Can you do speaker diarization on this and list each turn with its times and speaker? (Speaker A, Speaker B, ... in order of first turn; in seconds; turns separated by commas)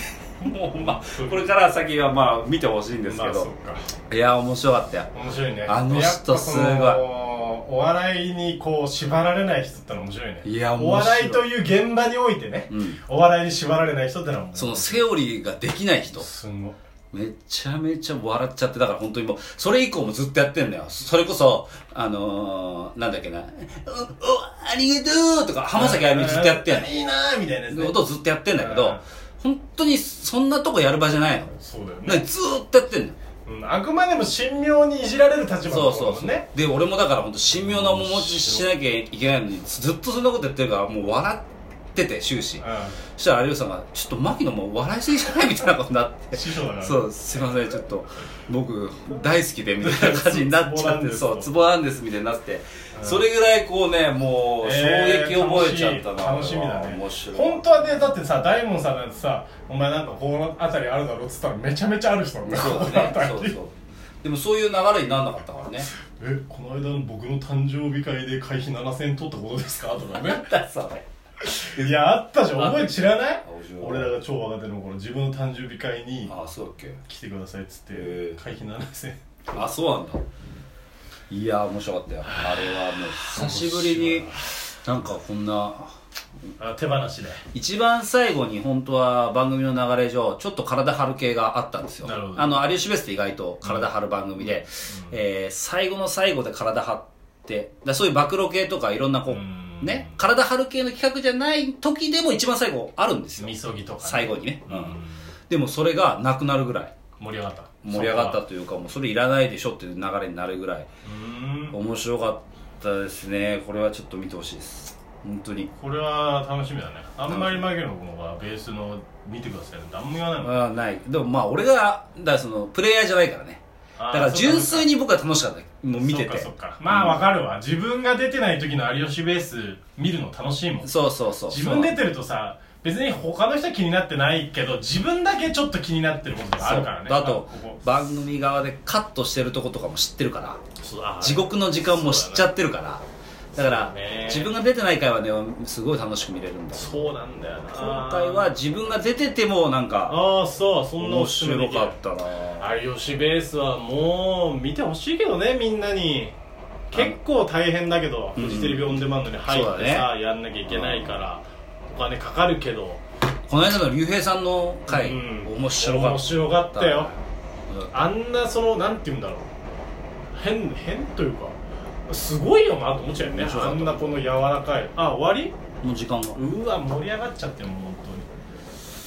Speaker A: 0.4-3.5, Speaker B: 0.4-1.5, Speaker B: 3.0-3.9, Speaker A: 4.1-5.1, Speaker B: 5.1-15.0, Speaker A: 5.7-7.0, Speaker A: 10.4-11.5, Speaker A: 12.7-13.0, Speaker A: 14.6-16.3, Speaker B: 16.2-16.8, Speaker A: 17.1-27.0, Speaker B: 25.8-28.0, Speaker A: 27.7-31.5, Speaker B: 28.5-29.0, Speaker B: 31.5-32.3, Speaker A: 32.1-33.2, Speaker B: 33.5-36.5, Speaker A: 35.7-57.7, Speaker B: 37.6-38.7, Speaker B: 42.6-43.0, Speaker B: 46.3-47.5, Speaker B: 49.8-51.5, Speaker B: 53.0-53.2, Speaker B: 54.6-63.6, Speaker A: 62.5-65.9, Speaker B: 66.2-70.4, Speaker A: 70.1-71.0, Speaker B: 71.4-76.3, Speaker A: 71.6-72.0, Speaker A: 72.6-74.1, Speaker A: 76.3-77.0, Speaker B: 77.0-79.7, Speaker A: 77.9-78.4, Speaker A: 79.5-80.2, Speaker A: 81.3-85.9, Speaker B: 82.3-84.5, Speaker B: 86.6-87.4, Speaker A: 87.5-106.9, Speaker B: 92.0-92.7, Speaker B: 94.4-95.2, Speaker B: 99.3-100.2, Speaker B: 103.4-105.3, Speaker B: 107.2-108.4, Speaker A: 107.8-110.9, Speaker B: 111.0-111.8, Speaker A: 111.7-115.7, Speaker B: 115.8-120.5, Speaker A: 117.3-117.6, Speaker A: 120.4-127.2, Speaker B: 124.0-124.9, Speaker B: 126.0-130.9, Speaker A: 130.8-132.0, Speaker B: 131.5-137.8, Speaker A: 136.6-140.6, Speaker B: 140.8-142.5, Speaker A: 141.2-143.0, Speaker B: 143.6-144.5, Speaker A: 143.6-147.1, Speaker B: 146.7-148.5, Speaker A: 147.7-150.2, Speaker B: 150.1-152.0, Speaker A: 151.0-152.7, Speaker B: 152.6-156.3, Speaker B: 156.9-163.0, Speaker A: 158.4-160.1, Speaker A: 160.7-161.2, Speaker A: 163.5-167.2, Speaker B: 164.9-167.1, Speaker A: 167.7-168.1, Speaker B: 167.9-169.5, Speaker B: 170.3-171.6, Speaker B: 172.1-175.6, Speaker A: 173.2-174.1, Speaker A: 175.8-176.4, Speaker B: 176.3-178.3